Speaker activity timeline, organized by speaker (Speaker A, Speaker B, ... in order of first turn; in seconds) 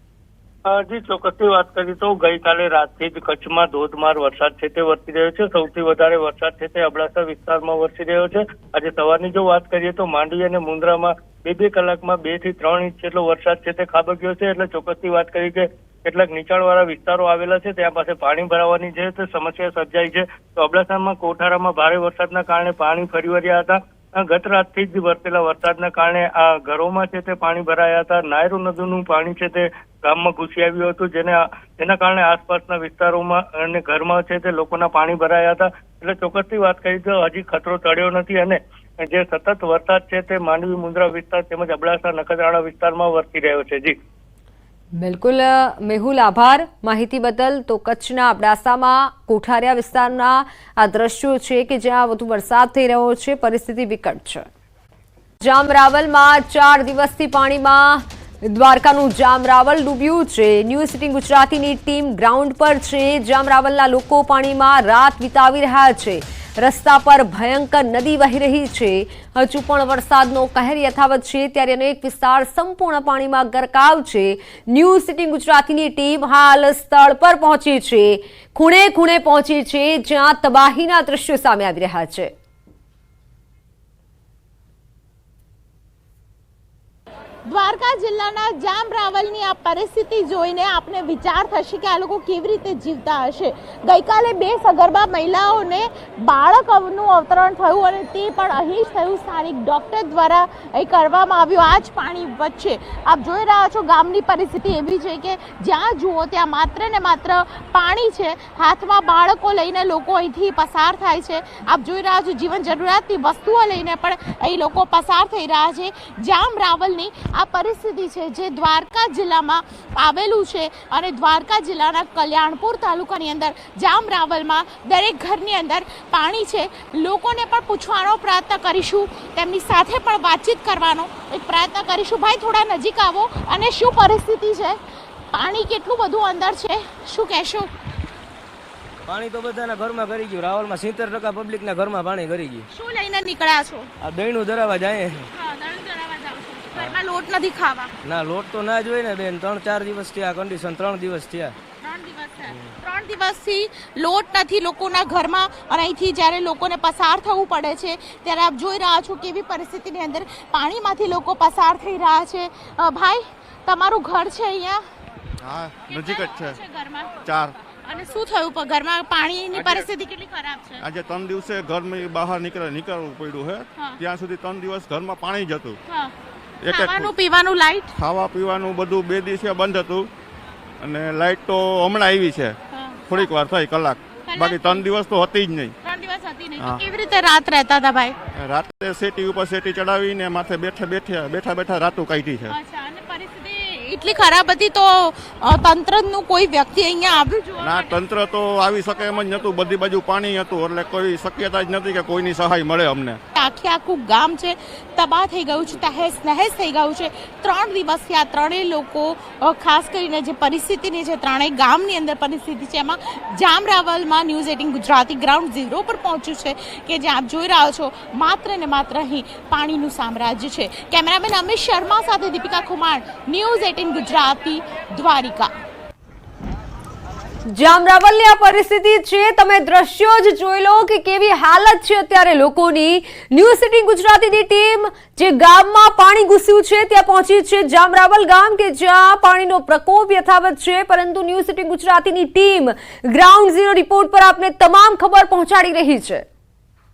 Speaker A: 0.7-44.0
Speaker B: 45.0-54.5, 55.4-82.3, 227.5-246.2
Speaker C: 87.5-134.8, 135.3-137.7, 142.7-143.9, 145.3-147.9, 151.8-164.8, 165.9-167.2, 167.9-170.8, 176.7-177.9, 182.7-183.3, 184.3-184.9, 185.8-188.2, 192.5-198.0, 203.3-225.5
Speaker D: 139.1-142.7, 144.0-145.3, 148.0-151.6
Speaker E: 165.4-166.6, 167.2-167.6, 170.8-175.8, 176.6-177.1, 178.0-180.1, 180.8-182.6, 183.1-185.7, 188.3-192.5, 197.6-203.2